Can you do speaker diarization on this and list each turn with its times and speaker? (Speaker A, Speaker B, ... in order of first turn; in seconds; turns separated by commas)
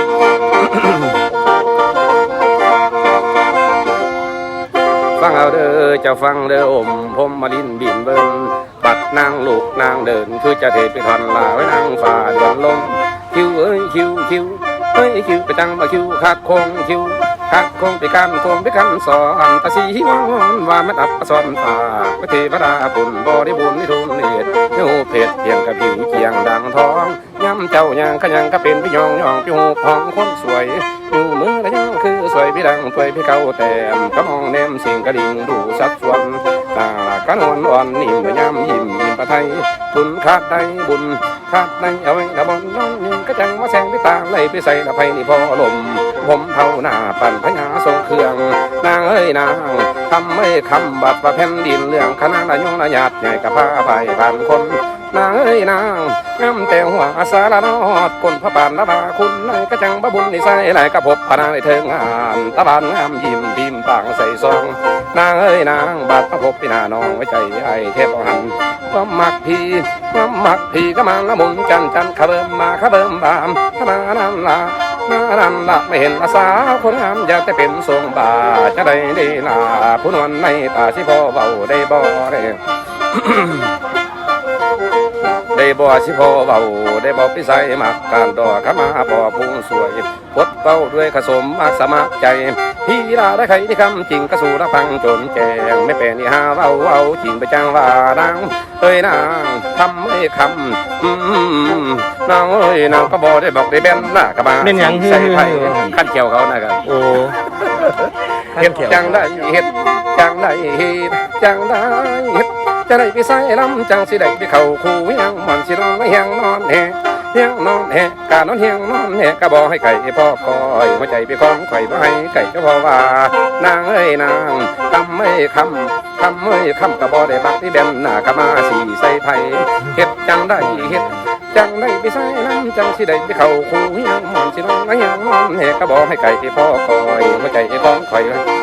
Speaker A: 0.6-1.1, Speaker A: 5.2-82.6, Speaker A: 83.1-83.7, Speaker A: 85.5-106.8, Speaker B: 104.6-105.9, Speaker B: 106.8-107.3, Speaker A: 107.5-108.0, Speaker B: 108.5-109.4, Speaker A: 108.5-138.4, Speaker B: 130.6-131.3